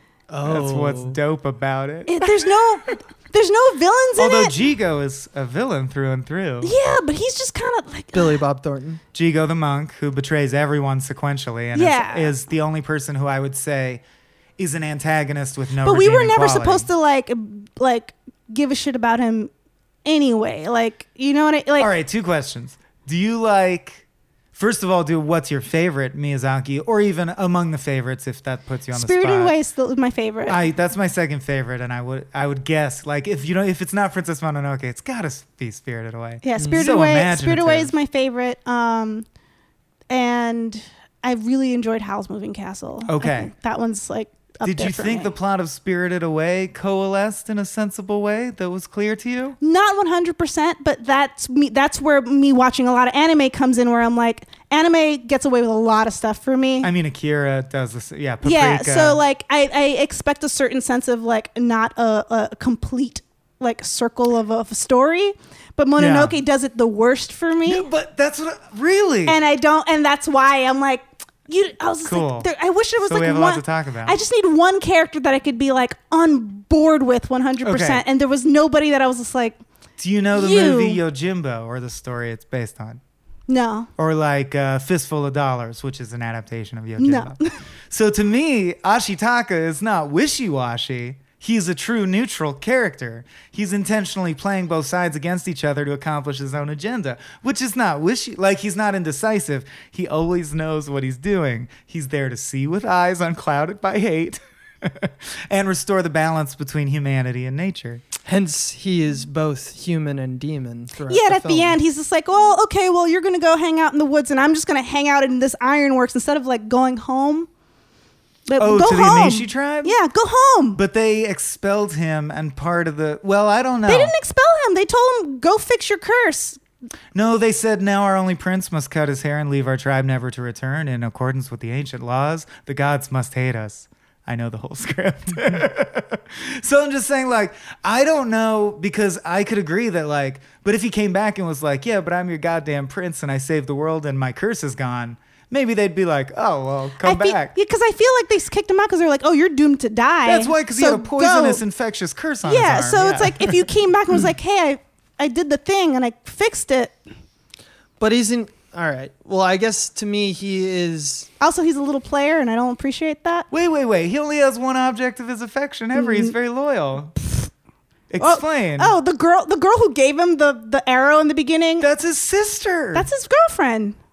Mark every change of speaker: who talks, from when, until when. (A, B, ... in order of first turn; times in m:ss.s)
0:00.3-0:01.2 A
0:00.4-0:02.3 B
0:02.1-0:04.6 C
0:04.2-0:06.7 B
0:06.6-0:08.4 C
0:08.1-0:09.0 A
0:09.1-0:14.0 B
0:11.7-0:12.3 C
0:14.6-0:16.9 B
0:15.8-0:19.5 C
0:20.0-0:21.9 C
0:21.8-0:29.6 B
0:28.9-0:30.6 C
0:30.5-0:37.9 B
0:36.4-0:39.3 C
0:36.6-0:36.8 A
0:40.1-0:45.3 C
0:43.1-0:43.5 B
0:44.6-0:49.6 B
0:49.6-0:56.9 C
0:56.8-0:59.2 B
0:58.4-1:07.9 C
1:06.0-1:06.3 B
1:07.7-1:09.4 B
1:09.2-1:19.6 C
1:12.0-1:12.5 B
1:13.0-1:14.2 B
1:17.6-1:18.0 B
1:20.0-1:23.0 B
1:20.3-1:21.0 C
1:23.5-1:23.9 C
1:24.0-1:48.0 B
1:27.0-1:27.6 C
1:48.2-1:51.8 A
1:51.1-1:57.5 C
1:58.4-2:00.8 C
1:58.6-2:00.0 B
2:00.8-2:04.1 B
2:03.9-2:06.6 C
2:07.1-2:27.5 B
2:27.0-2:31.6 C
2:30.2-2:33.6 B
2:32.4-2:37.0 C
2:38.0-2:41.3 A
2:41.4-2:43.5 C
2:43.5-2:47.2 B
2:45.9-2:46.3 C
2:48.1-2:48.9 B
2:48.2-2:51.9 C
2:51.8-2:53.1 B
2:52.9-2:54.0 C